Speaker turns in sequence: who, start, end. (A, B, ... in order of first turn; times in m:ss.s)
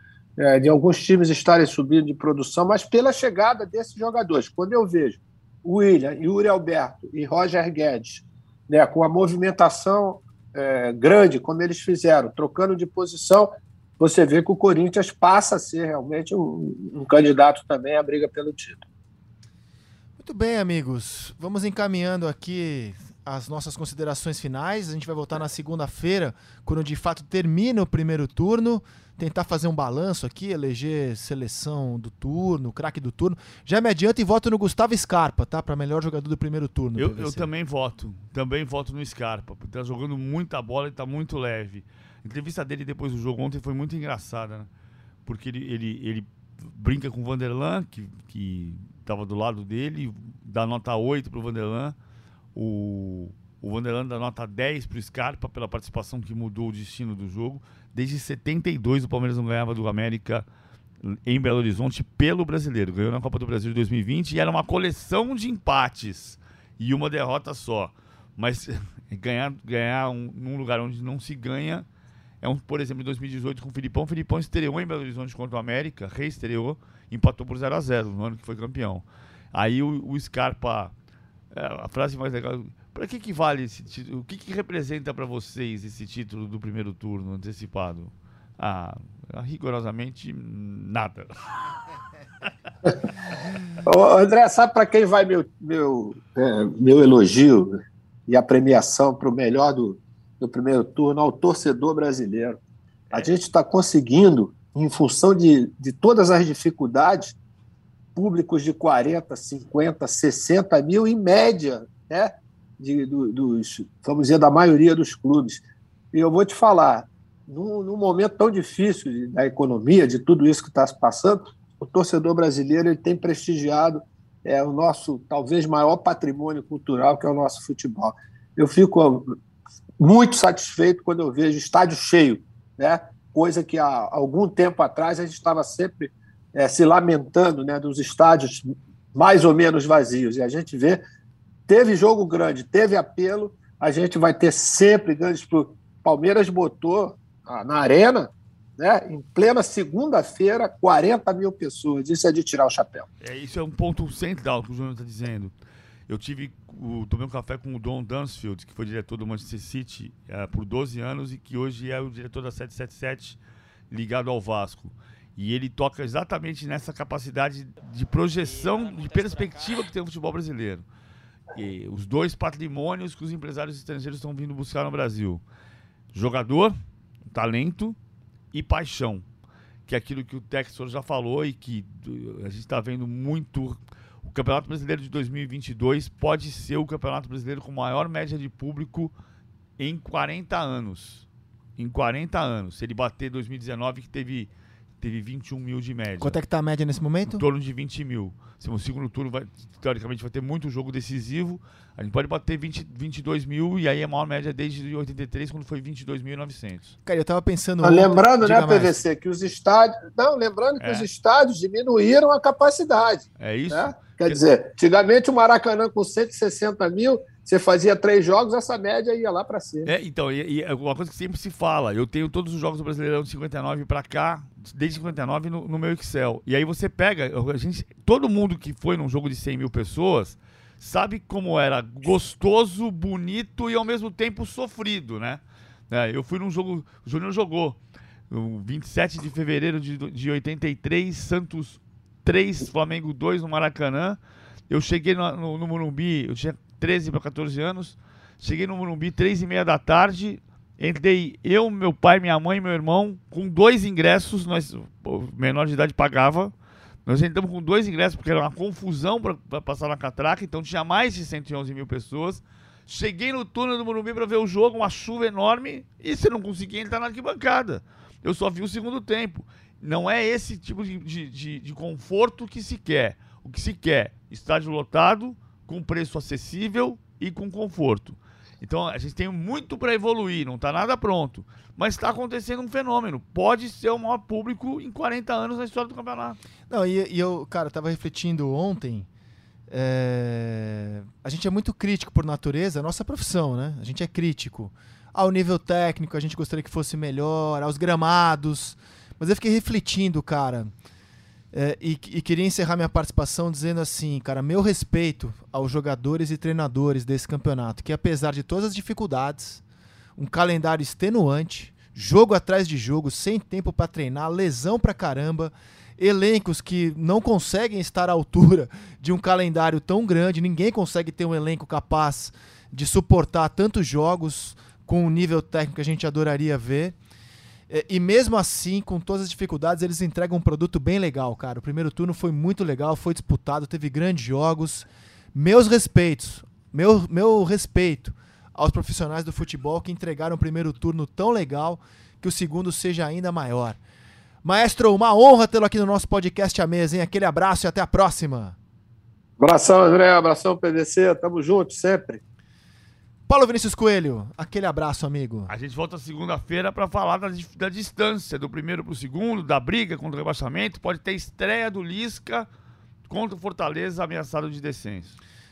0:00.4-0:18.9 A
0:20.2-0:37.5 B
0:37.0-0:44.7 C
0:45.3-0:52.0 C
0:52.6-1:00.5 C
1:01.0-1:11.9 C
1:12.4-1:20.9 C
1:21.5-1:31.5 C
1:33.8-1:37.8 A
1:38.3-1:42.6 A
1:43.1-1:47.4 A
1:48.2-2:09.3 A
2:10.0-2:21.0 A
2:21.7-2:33.1 A
2:33.2-2:35.5 C
2:36.1-2:43.4 C
2:43.9-2:50.8 C
2:51.5-2:55.4 C
2:56.1-2:56.8 C
2:57.3-2:58.0 C
2:58.5-2:59.2 C
2:59.9-3:09.1 C
3:09.8-3:14.5 C
3:15.0-3:16.4 C
3:16.2-3:17.4 B
3:17.3-3:26.9 C
3:27.1-3:29.0 B
3:27.8-3:39.9 A
3:30.8-3:31.1 C
3:33.4-3:34.4 C
3:39.9-3:57.8 C
3:58.3-4:04.2 C
4:04.7-4:16.5 C
4:17.1-4:46.4 C
4:46.7-4:49.1 B
4:49.7-5:00.7 B
5:01.5-5:09.6 B
5:10.2-5:27.0 B
5:27.7-5:43.8 B
5:44.4-5:48.6 B
5:49.4-5:52.2 A
5:53.3-5:55.5 B
5:55.5-6:02.5 C
6:03.1-6:05.2 C